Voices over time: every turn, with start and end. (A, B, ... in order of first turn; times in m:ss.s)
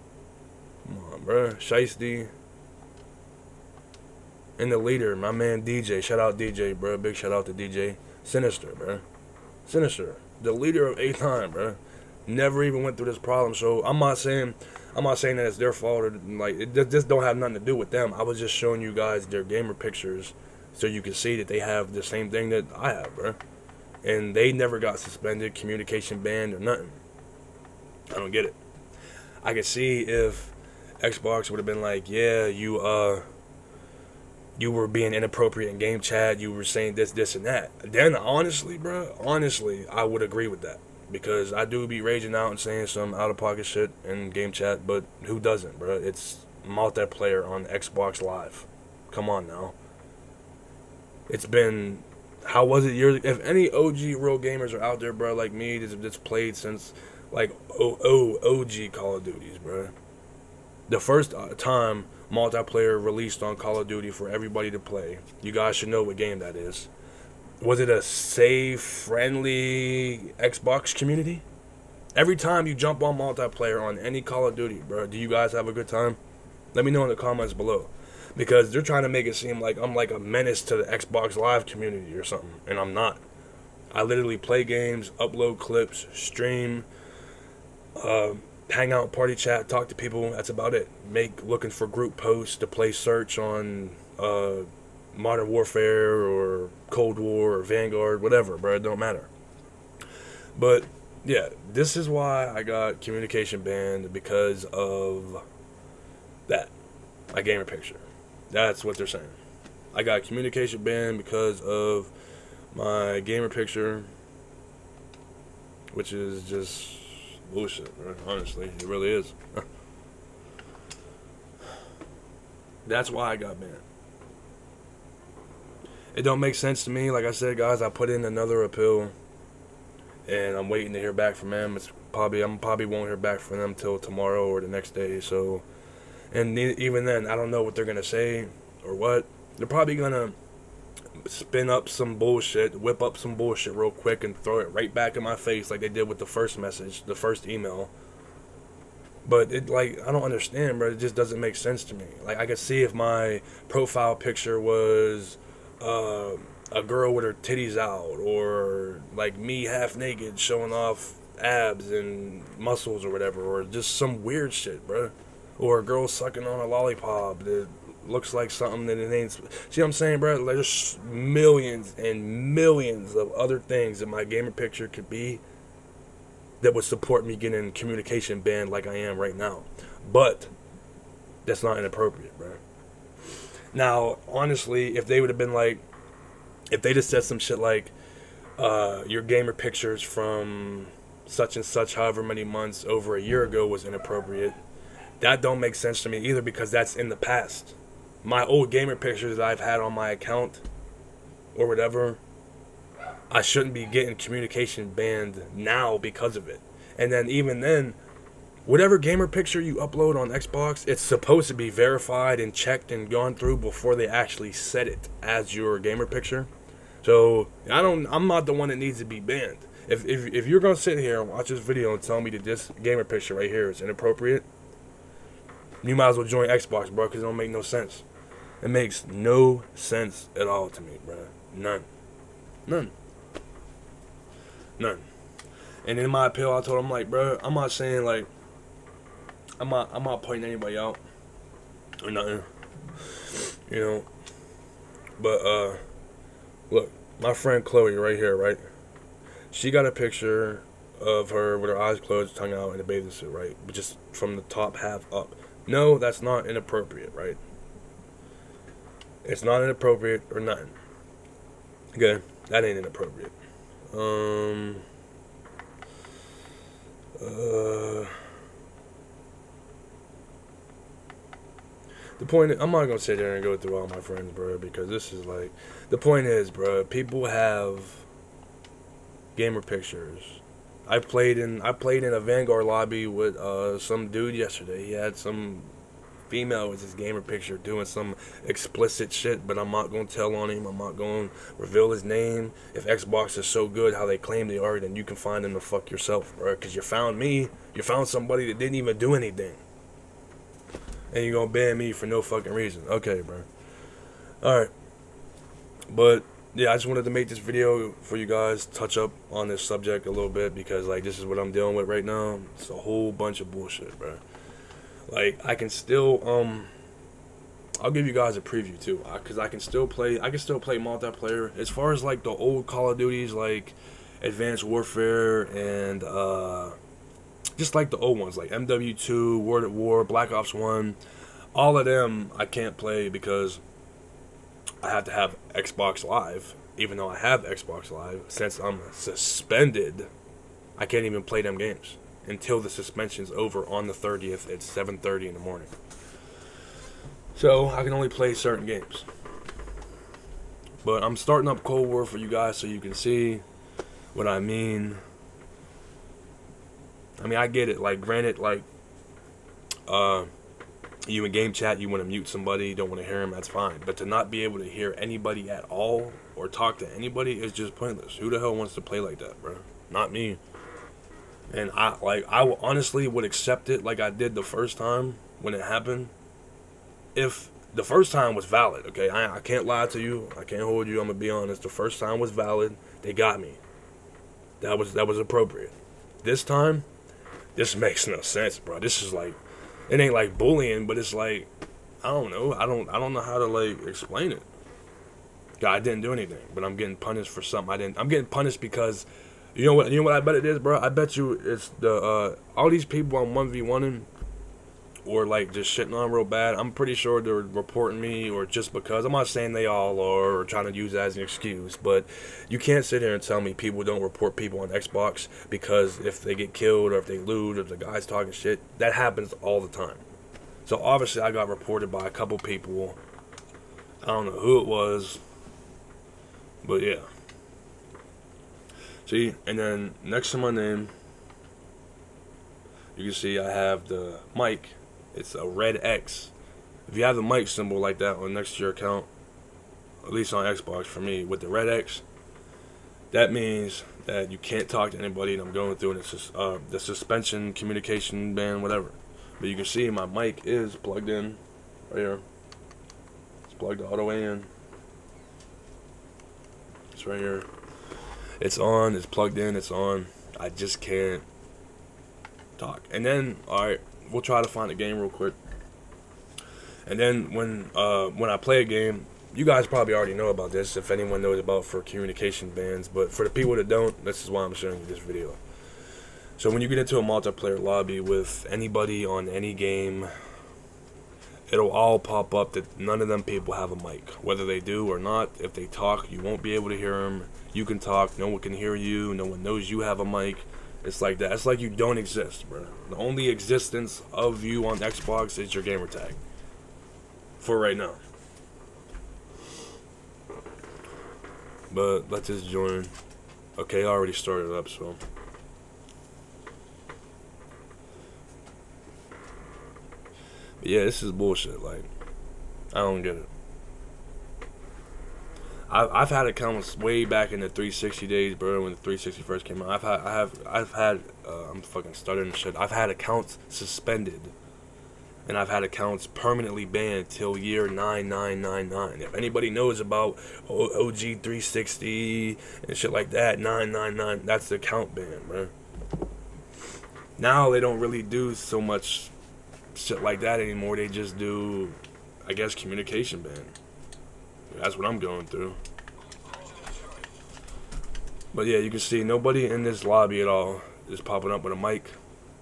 0:00.8-0:02.3 A
0:04.6-0:09.0 A
0:09.6-0:23.4 A
0:24.0-0:27.0 A
0:28.1-0:28.6 A
0:29.4-0:33.2 A
0:34.6-0:49.8 A
0:51.3-0:59.9 A
1:00.9-1:06.9 A
1:07.6-1:11.4 A
1:12.1-1:16.2 A
1:16.7-1:23.2 A
1:23.9-1:26.9 A
1:28.0-1:39.3 A
1:40.6-1:45.4 A
1:46.5-1:46.7 A
1:47.3-1:49.4 A
1:49.9-1:52.1 A
1:52.7-1:54.1 A
1:55.9-1:59.6 A
2:02.8-2:03.8 A
2:06.1-2:09.1 A
2:10.3-2:15.6 A
2:16.3-2:20.4 A
2:21.2-2:27.9 A
2:29.2-2:55.4 A
2:56.6-3:00.5 A
3:01.4-3:02.6 A
3:03.7-3:05.8 A
3:06.7-3:07.9 A
3:08.6-3:14.6 A
3:15.2-3:20.6 A
3:21.5-3:22.2 A
3:23.3-3:28.0 A
3:28.6-3:36.5 A
3:37.0-3:44.4 A
3:45.8-3:48.0 A
3:48.6-3:51.9 A
3:52.6-3:52.9 A
3:54.8-3:55.0 A
3:55.8-3:58.3 A
3:59.6-4:01.0 A
4:02.0-4:02.5 A
4:03.0-4:04.1 A
4:05.2-4:05.8 A
4:06.7-4:08.6 A
4:09.5-4:17.4 A
4:19.2-4:20.8 A
4:21.9-4:23.3 A
4:23.9-4:24.8 A
4:27.2-4:28.1 A
4:32.2-4:38.0 A
4:39.3-4:45.7 A
4:46.3-4:59.6 A
5:01.1-5:03.5 A
5:04.4-5:04.7 A
5:05.9-5:14.2 A
5:15.1-5:16.7 A
5:17.8-5:26.8 A
5:27.6-5:31.0 A
5:31.5-5:33.6 A
5:34.8-5:40.1 A
5:40.8-5:45.7 A
5:47.3-5:49.1 A
5:50.8-5:53.4 A
5:54.1-5:55.0 A
5:57.2-5:58.6 A
5:59.9-6:00.3 A
6:01.1-6:10.4 A
6:11.5-6:16.1 A
6:17.1-6:23.6 A
6:24.6-6:26.9 A
6:27.6-6:31.5 A
6:32.0-6:34.4 A
6:35.6-6:44.1 A
6:45.0-7:00.0 A
7:00.6-7:03.0 A
7:04.0-7:05.2 A
7:06.6-7:07.1 A
7:09.0-7:10.9 A
7:12.9-7:16.3 A
7:16.9-7:19.1 A
7:20.0-7:22.0 A
7:23.1-7:32.2 A
7:33.5-7:34.5 A
7:36.9-7:37.5 A
7:38.4-7:41.2 A
7:42.6-7:45.4 A
7:46.8-7:55.4 A
7:56.4-8:00.1 A
8:01.5-8:16.2 A
8:17.4-8:18.0 A
8:21.7-8:22.9 A
8:23.6-8:25.0 A
8:30.6-8:31.9 A
8:32.7-8:33.3 A
8:35.7-8:44.3 A
8:45.2-8:55.5 A
8:57.2-8:59.1 A
8:59.7-9:03.5 A
9:04.5-9:05.6 A
9:08.3-9:12.0 A